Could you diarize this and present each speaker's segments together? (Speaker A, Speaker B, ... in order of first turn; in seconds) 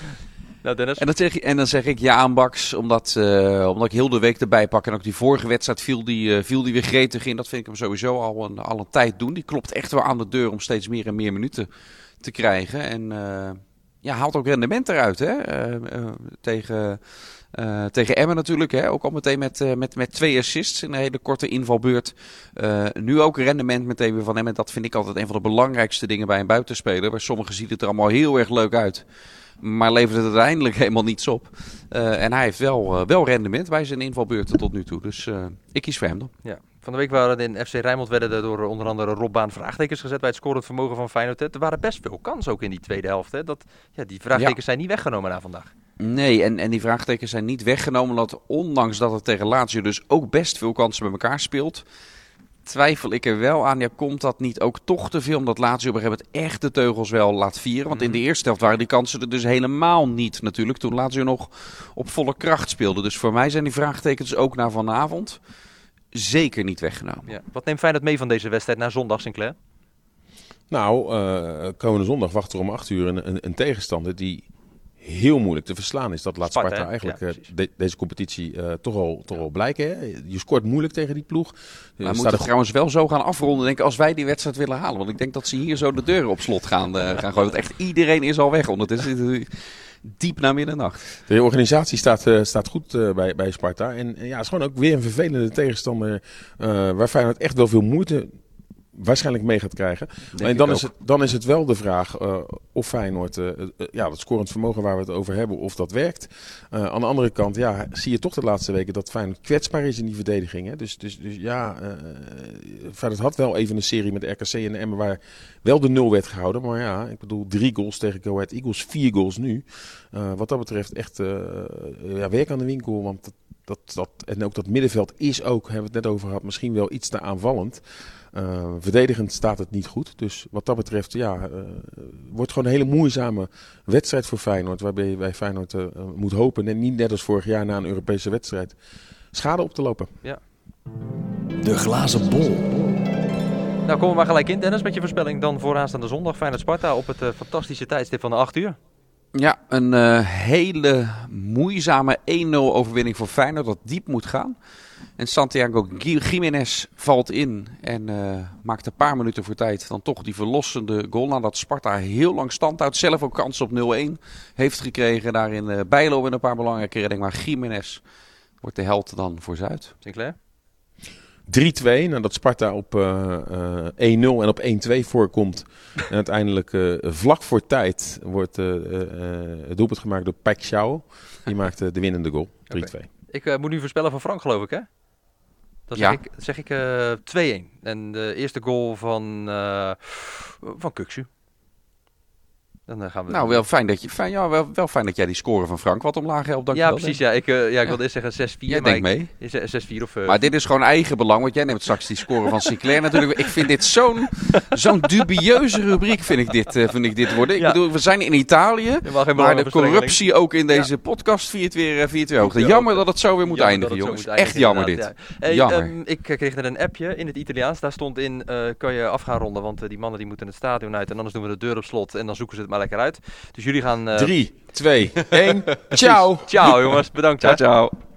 Speaker A: 0.6-1.0, 36.4-45.7, 57.9-58.2, 67.3-69.6, 76.4-77.4, 141.7-142.7, 143.8-148.8, 170.0-170.4, 182.7-184.9, 185.9-191.3, 192.9-193.7, 196.7-200.4, 202.5-203.6, 207.6-207.8, 209.0-210.9, 212.4-224.3, 225.9-227.6
Speaker B: 1.0-11.7, 12.2-17.0, 17.5-29.0, 29.6-36.3, 46.0-51.8, 52.7-65.4, 66.1-67.3, 82.1-89.5, 90.0-91.0, 100.3-100.9, 149.3-154.6, 155.2-168.0, 168.6-169.9, 193.3-197.2, 198.7-199.3, 200.3-215.9, 227.4-227.9
Speaker C: 70.7-74.5, 75.0-82.5, 91.3-98.3, 99.0-127.8, 128.3-138.8, 139.3-140.1, 171.5-183.1, 224.1-226.5